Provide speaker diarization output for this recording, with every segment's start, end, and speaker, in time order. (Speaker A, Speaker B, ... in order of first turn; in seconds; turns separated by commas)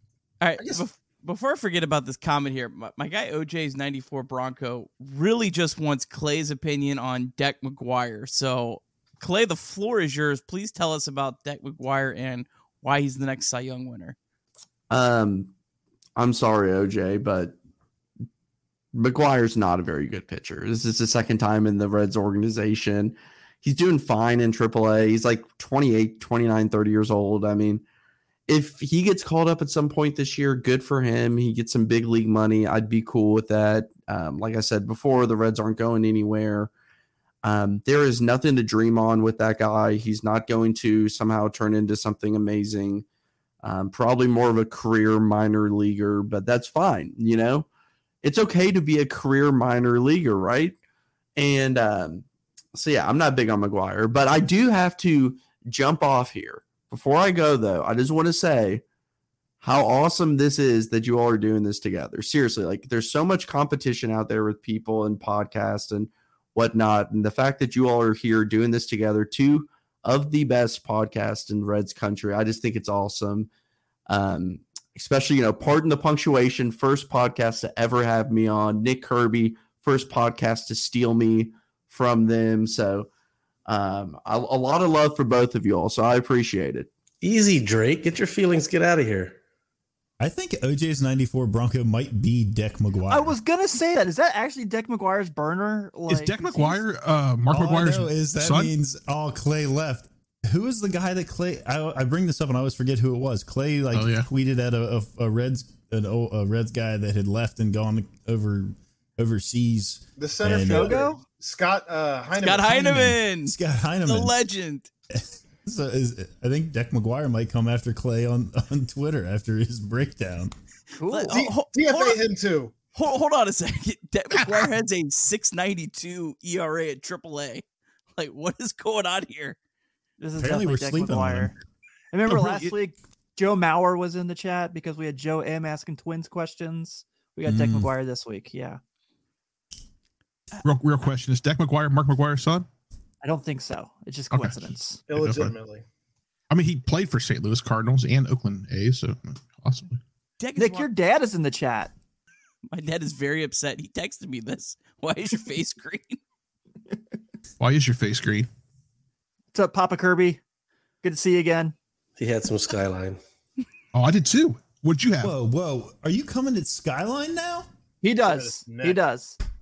Speaker A: 0.4-14.2, Speaker B: 14.9-15.5, Speaker B: 16.1-17.6, Speaker B: 18.9-27.8, Speaker B: 28.5-36.7, Speaker B: 37.4-43.0, Speaker B: 43.6-47.7, Speaker B: 48.2-50.7, Speaker B: 51.4-58.8, Speaker B: 59.6-73.5, Speaker B: 74.1-83.1, Speaker B: 83.7-86.9, Speaker C: 87.2-89.4, Speaker D: 90.2-93.3, Speaker E: 93.1-96.8, Speaker F: 96.1-98.7, Speaker D: 97.5-111.0, Speaker F: 103.9-104.3, Speaker G: 110.2-113.0, Speaker E: 110.5-111.2, Speaker A: 112.4-113.5, Speaker D: 112.7-114.3, Speaker A: 114.1-114.9, Speaker D: 115.1-120.5, Speaker E: 121.0-121.3, Speaker A: 121.1-122.2, Speaker G: 121.3-122.7, Speaker A: 122.9-129.6, Speaker F: 124.3-124.7, Speaker E: 130.2-131.5, Speaker D: 130.4-131.5, Speaker E: 132.1-138.8, Speaker F: 132.3-132.7, Speaker D: 137.4-137.9, Speaker F: 140.6-142.7, Speaker E: 143.2-145.0, Speaker F: 144.3-145.5, Speaker G: 145.1-145.8, Speaker F: 146.5-150.0, Speaker A: 150.4-150.9, Speaker E: 150.6-151.9, Speaker A: 152.7-156.2, Speaker F: 157.6-158.5, Speaker E: 159.5-160.4, Speaker E: 161.0-161.7, Speaker C: 162.2-163.2, Speaker F: 163.9-165.3, Speaker D: 165.2-167.7, Speaker E: 168.0-169.4, Speaker G: 168.2-169.0